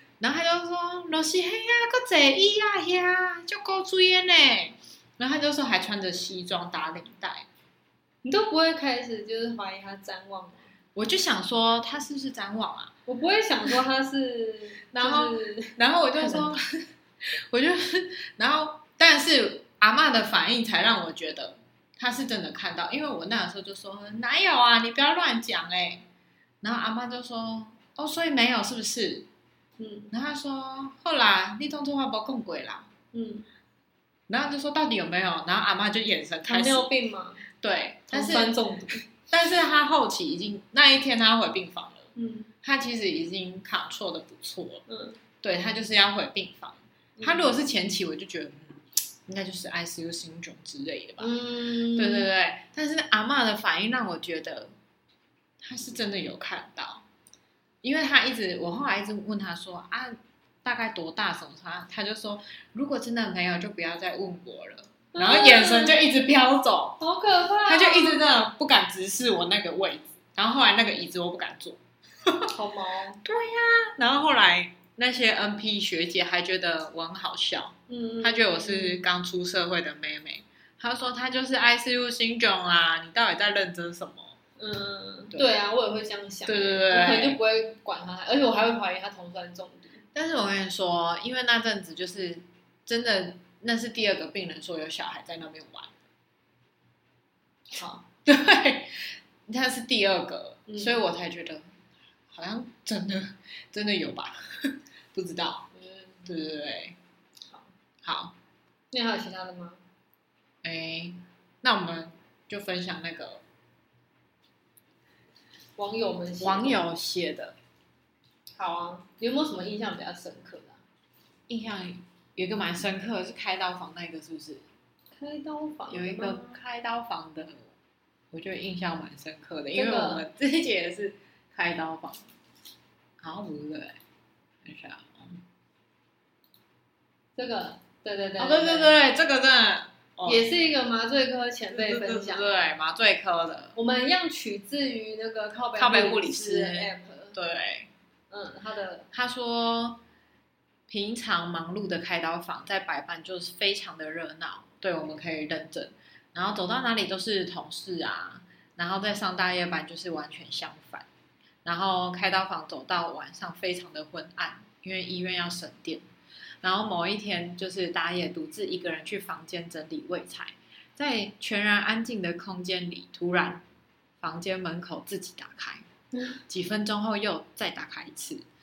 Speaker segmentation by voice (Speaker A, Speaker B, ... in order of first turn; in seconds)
Speaker A: 0.2-7.5, 10.9-12.9, 14.9-26.1, 26.6-29.3, 30.1-32.9, 34.3-36.9, 37.6-42.1, 42.6-44.9, 45.4-51.4, 51.9-54.7, 55.6-57.0, 57.8-67.0, 67.7-72.5, 73.2-84.4, 86.5-87.4, 90.2-96.0, 98.2-101.7, 102.3-105.7, 106.2-107.0, 108.0-108.3, 110.6-113.4, 116.4-117.6, 121.5-124.7, 125.9-127.6, 128.3-132.2, 133.2-134.0, 134.6-135.4, 138.4-140.5, 141.7-143.8, 145.8-147.9, 149.1-150.0, 150.9-161.1, 161.7-166.1, 166.6-173.6, 174.2-175.9, 176.5-178.4
Speaker B: 8.2-10.7, 13.1-16.5, 29.8-30.1, 33.1-33.5, 36.5-37.5, 38.1-39.0, 42.1-42.5, 44.9-45.2, 47.2-47.5, 51.2-52.3, 65.1-66.0, 67.0-68.3, 72.5-73.2, 77.9-79.0, 84.6-90.0, 97.7-98.1, 100.7-101.0, 105.7-106.3, 107.5-107.7, 108.9-109.8, 115.8-116.8, 118.6-120.8, 125.1-126.6, 129.7-130.2, 137.4-139.0, 140.2-142.7, 143.8-147.4, 148.3-149.1